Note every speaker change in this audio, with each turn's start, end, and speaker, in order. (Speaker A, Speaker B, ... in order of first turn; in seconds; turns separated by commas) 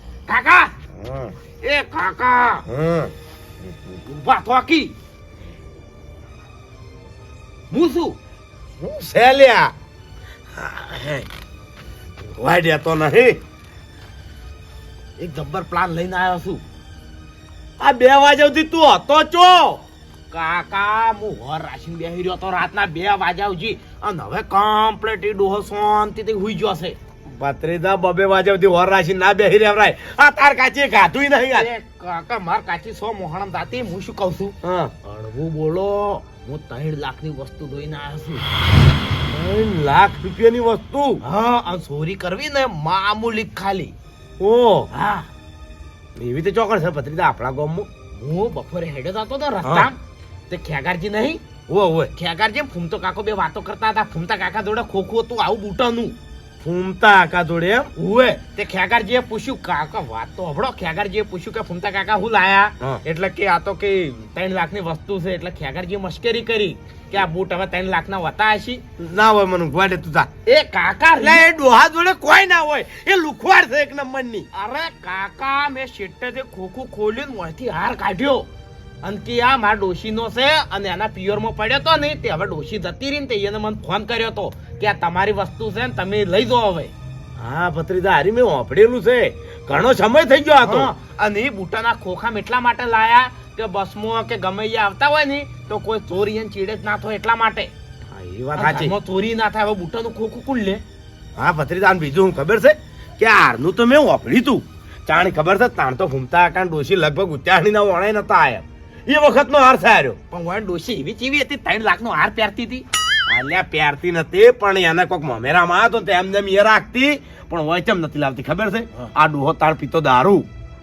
Speaker A: 0.3-0.7, Speaker B: 0.9-1.4, Speaker A: 1.6-2.6, Speaker B: 2.7-3.1, Speaker A: 3.9-4.9, Speaker A: 7.7-8.2, Speaker B: 8.8-9.7, Speaker B: 10.6-11.3, Speaker B: 12.2-13.4, Speaker A: 15.2-16.6, Speaker B: 17.8-19.8, Speaker A: 20.3-27.0, Speaker B: 27.3-31.7, Speaker A: 31.5-38.5, Speaker B: 34.6-34.9, Speaker B: 39.3-41.2, Speaker A: 41.2-43.9, Speaker B: 44.4-44.9, Speaker A: 44.9-45.3, Speaker B: 46.2-47.9, Speaker A: 48.1-51.4, Speaker B: 49.6-49.9, Speaker B: 51.7-52.1, Speaker A: 52.1-56.2, Speaker B: 56.6-57.9, Speaker A: 58.0-68.8, Speaker B: 69.0-70.3, Speaker A: 70.5-71.5, Speaker B: 71.2-74.5, Speaker A: 74.5-78.5, Speaker A: 79.0-86.9, Speaker B: 87.4-90.9, Speaker A: 90.6-97.7, Speaker B: 98.1-98.9, Speaker A: 98.5-100.8, Speaker B: 101.4-110.2, Speaker A: 110.3-112.9, Speaker B: 113.3-120.5